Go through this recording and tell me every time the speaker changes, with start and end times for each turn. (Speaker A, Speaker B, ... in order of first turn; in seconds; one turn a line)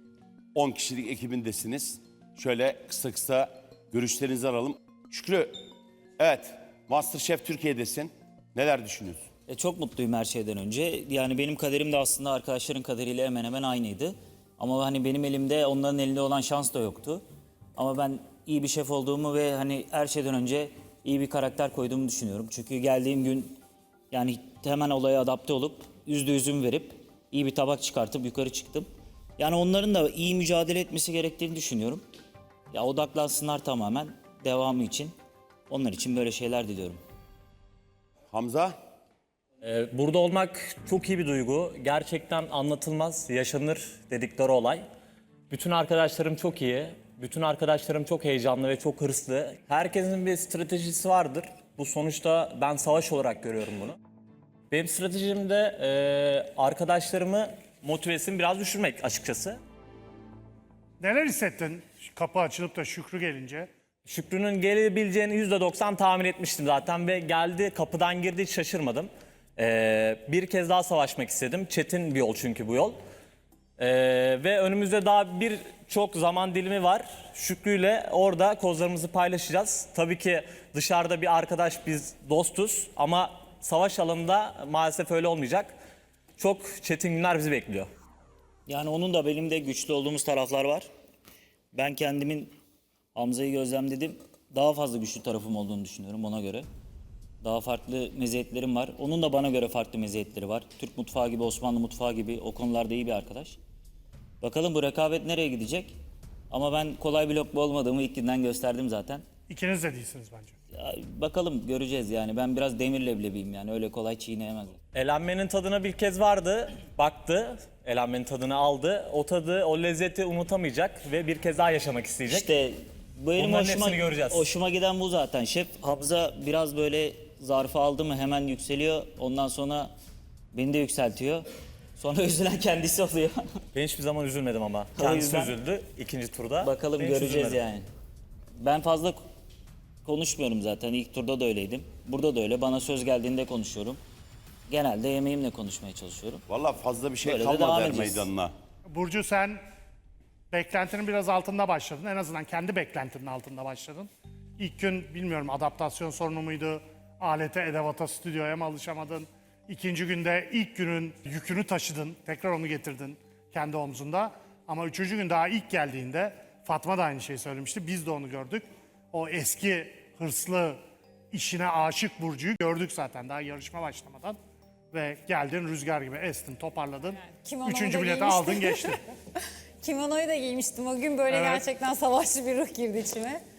Speaker A: 0.5-5.5
Speaker A: 6.2-9.2
Speaker B: 9.5-17.2
Speaker B: 17.8-23.6
Speaker B: 24.1-28.9
Speaker B: 29.4-32.0
Speaker B: 32.7-35.1
Speaker B: 35.7-37.0
Speaker A: 38.3-38.7
Speaker C: 39.6-44.8
Speaker C: 45.5-54.0
Speaker C: 54.7-59.6
Speaker D: 61.0-63.7
Speaker C: 64.0-73.0
Speaker C: 73.8-85.7
Speaker C: 86.4-87.9
Speaker B: 88.7-90.9
Speaker B: 91.7-92.5
Speaker B: 93.1-96.7
Speaker B: 97.4-103.6
Speaker B: 104.4-106.0
Speaker B: 106.5-109.2
Speaker D: 109.5-110.5
Speaker B: 110.7-114.8
Speaker C: 114.9-122.5
Speaker B: 122.3-129.9
Speaker C: 123.3-124.4
Speaker B: 130.5-131.4
Speaker B: 131.9-133.4
Speaker C: 133.7-137.6
Speaker B: 134.9-135.5
Speaker B: 136.6-137.8
Speaker B: 138.6-139.2
Speaker B: 140.0-144.0
Speaker B: 144.7-146.4
Speaker A: 146.5-148.5
Speaker B: 147.2-148.3
Speaker D: 148.9-149.6
Speaker D: 150.5-170.8
Speaker D: 171.3-174.4
Speaker D: 174.9-179.0
Speaker E: 177.1-183.4
Speaker D: 181.3-181.6